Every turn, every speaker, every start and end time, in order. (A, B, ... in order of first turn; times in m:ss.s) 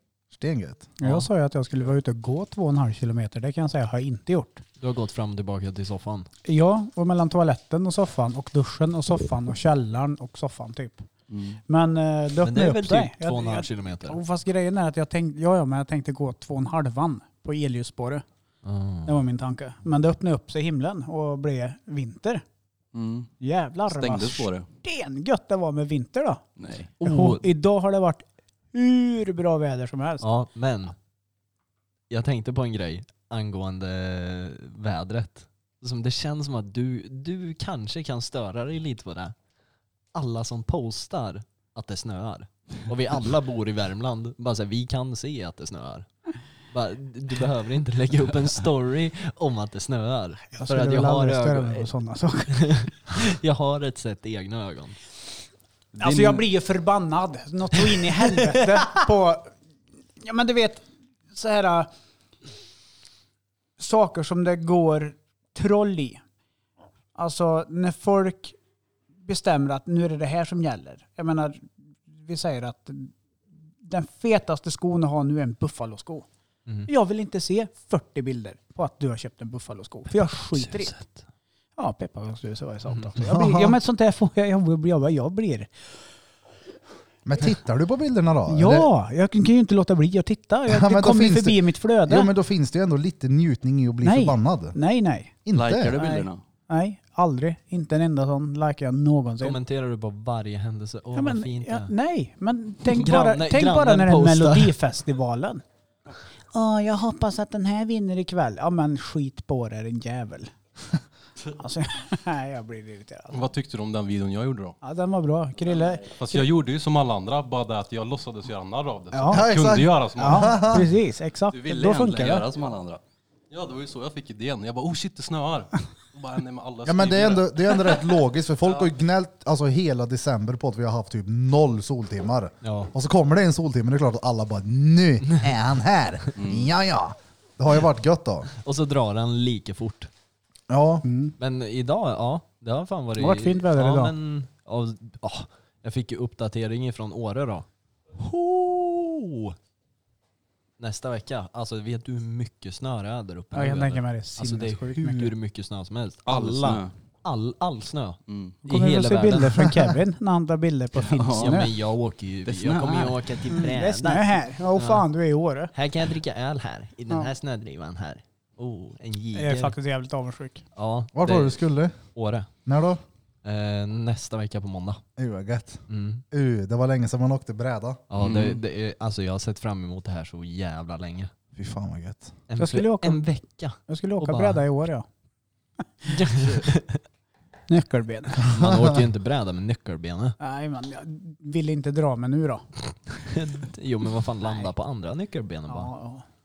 0:00.3-0:00.9 A
0:01.0-0:04.6 B
0:04.8-0:06.3 C
0:06.4-0:11.1 B
0:11.3-0:11.6 D
0:11.7-0:18.2 B
0:12.4-0:14.2 C
0:18.6-0:19.2 C
0:19.0-0:22.4 B
0:22.9-0:23.3 D
0:23.4-0:26.4 B
0:23.9-0:24.7 D
0:26.6-0:26.9 D
0:27.0-0:27.5 C
0:27.0-0:30.2 B
0:30.2-0:30.9 C
0:32.1-0:39.3 C
0:40.1-0:46.1 C
0:46.7-0:51.9 C
0:50.5-0:52.6 B
0:52.5-0:55.0 C
0:56.0-0:56.4 C
0:56.0-0:59.5 B
0:57.9-0:58.6 C
1:00.2-1:01.9 B
1:03.8-1:06.2 B
1:07.1-1:08.6 B
1:09.2-1:13.1 B
1:13.8-1:16.3 B
1:16.9-1:21.0 B
1:20.5-1:21.2 C
1:21.8-1:25.7 B
1:23.2-1:23.8 A
1:27.2-1:28.9 A
1:28.5-1:32.3 B
1:30.7-1:34.8 A
1:34.0-1:35.3 B
1:35.4-1:36.0 A
1:35.5-1:36.4 D
1:36.0-1:39.6 B
1:39.4-1:41.9 C
1:41.1-1:45.6 B
1:42.8-1:44.7 C
1:46.5-1:50.5 B
1:51.6-1:53.4 B
1:53.3-1:54.8 E
1:54.8-1:56.4 B
1:56.0-2:00.8 E
1:59.1-1:59.5 B
1:59.3-2:00.9 A
2:00.1-2:02.4 B
2:01.5-2:03.0 D
2:03.5-2:08.1 E
2:06.8-2:18.5 A
2:12.6-2:12.9 C
2:16.4-2:16.7 D
2:18.6-2:20.1 C
2:20.7-2:21.0 A
2:21.0-2:21.3 B
2:21.4-2:29.5 C
2:23.2-2:24.1 B
2:30.8-2:39.6 C
2:33.5-2:35.3 B
2:36.2-2:36.9 D
2:38.3-2:38.6 D
2:38.7-2:41.7 B
2:41.0-2:41.6 D
2:41.4-2:45.0 C
2:42.4-2:43.5 D
2:43.5-2:45.7 B
2:45.7-2:49.7 C
2:49.3-2:50.6 B
2:50.8-2:51.6 C
2:51.1-2:52.0 A
2:52.1-2:52.5 C
2:52.6-2:53.0 A
2:53.4-2:55.0 C
2:55.2-2:58.0 A
2:55.9-2:56.2 C
2:58.1-3:01.3 C
2:58.2-2:58.6 D
3:01.5-3:02.3 A
3:02.5-3:04.6 C
3:02.6-3:03.2 B
3:03.9-3:05.1 B
3:06.1-3:07.0 C
3:07.7-3:08.5 B
3:08.5-3:09.0 A
3:08.5-3:10.4 C
3:10.4-3:12.6 B
3:13.2-3:15.9 C
3:15.7-3:16.2 B